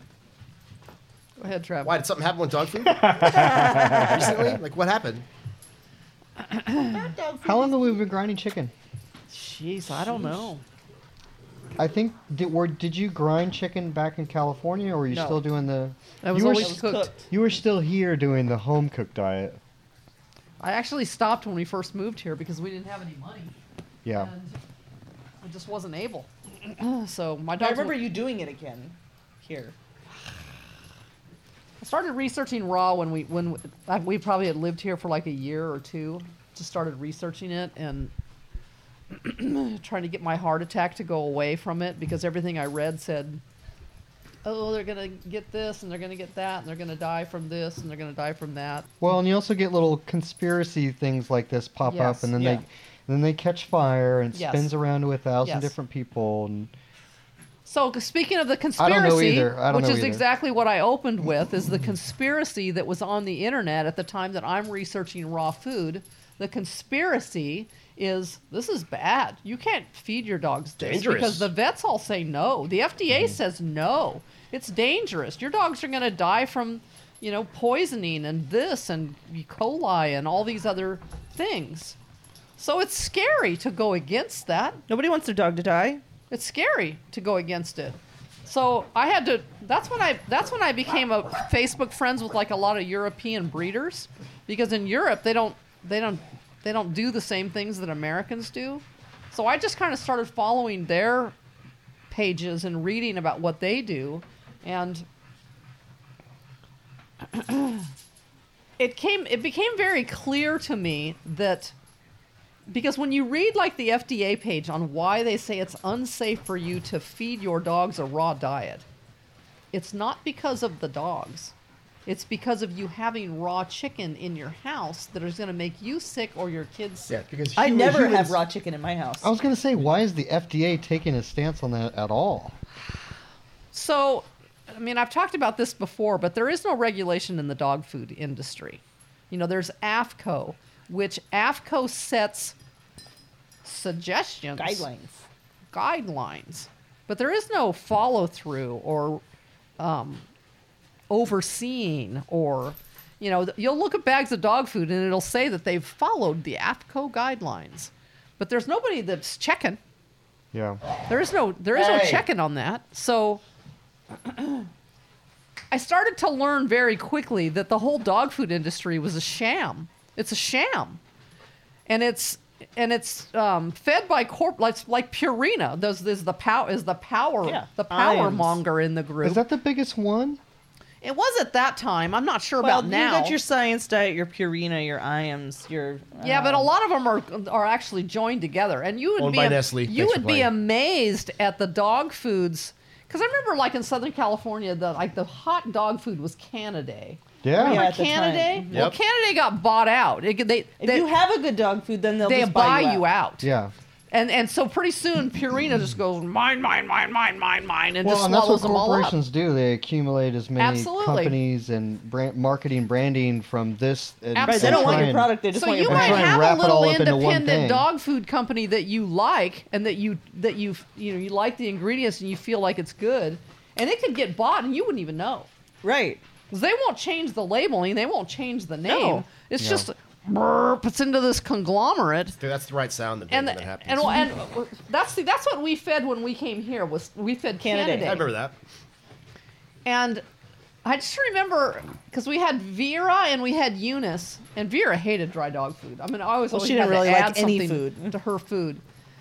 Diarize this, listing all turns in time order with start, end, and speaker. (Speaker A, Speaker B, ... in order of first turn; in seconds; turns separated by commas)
Speaker A: 1.4-2.0, Speaker B: 1.8-5.2, Speaker C: 2.8-4.6, Speaker D: 3.1-4.5, Speaker A: 6.4-7.0, Speaker D: 6.8-8.0, Speaker C: 7.4-8.7, Speaker A: 9.3-10.6, Speaker D: 9.9-10.5, Speaker C: 11.8-19.6, Speaker D: 15.1-15.4, Speaker A: 16.2-17.1, Speaker D: 16.6-17.3, Speaker A: 20.6-23.5, Speaker C: 24.0-24.3, Speaker A: 24.1-24.6, Speaker A: 25.4-28.1, Speaker D: 27.6-29.7, Speaker A: 31.8-38.1, Speaker A: 39.1-43.4, Speaker A: 44.4-48.9, Speaker C: 49.0-56.7, Speaker A: 51.9-52.3, Speaker D: 52.4-52.6, Speaker A: 54.3-54.7, Speaker A: 55.4-55.7, Speaker A: 57.6-82.0, Speaker C: 58.8-60.2, Speaker B: 70.8-71.5, Speaker A: 82.6-84.8, Speaker D: 84.9-86.0, Speaker A: 86.3-101.3, Speaker A: 102.1-105.0, Speaker A: 107.3-107.9, Speaker A: 108.8-111.7, Speaker A: 112.7-118.8, Speaker A: 119.7-121.5, Speaker A: 122.0-127.1, Speaker B: 127.1-128.4, Speaker D: 127.5-129.3, Speaker C: 129.2-132.6, Speaker A: 133.7-142.5, Speaker A: 143.6-144.8, Speaker D: 144.6-145.2, Speaker A: 145.7-149.2, Speaker A: 149.8-150.2, Speaker A: 151.1-159.8, Speaker C: 160.5-160.8, Speaker A: 161.1-163.4, Speaker B: 161.7-162.2, Speaker A: 164.2-164.7, Speaker A: 165.7-171.0, Speaker A: 171.9-179.4, Speaker D: 177.4-178.6, Speaker C: 179.2-180.4, Speaker A: 181.0-183.4, Speaker D: 182.6-186.7, Speaker A: 186.2-201.1, Speaker B: 189.2-190.5, Speaker C: 197.4-197.8, Speaker D: 197.6-198.8, Speaker B: 198.7-198.9, Speaker D: 200.8-203.0, Speaker A: 202.2-203.5, Speaker C: 203.4-203.7, Speaker A: 204.1-209.1, Speaker C: 208.0-217.9, Speaker A: 210.6-211.4, Speaker A: 214.3-225.5, Speaker D: 214.4-216.3, Speaker D: 225.8-226.2, Speaker A: 226.5-232.3, Speaker D: 228.8-229.2, Speaker C: 229.6-229.9, Speaker B: 232.4-234.3, Speaker A: 233.3-238.2, Speaker D: 237.6-238.2, Speaker B: 238.0-238.6, Speaker A: 239.8-240.2, Speaker A: 240.8-248.8, Speaker D: 246.5-248.1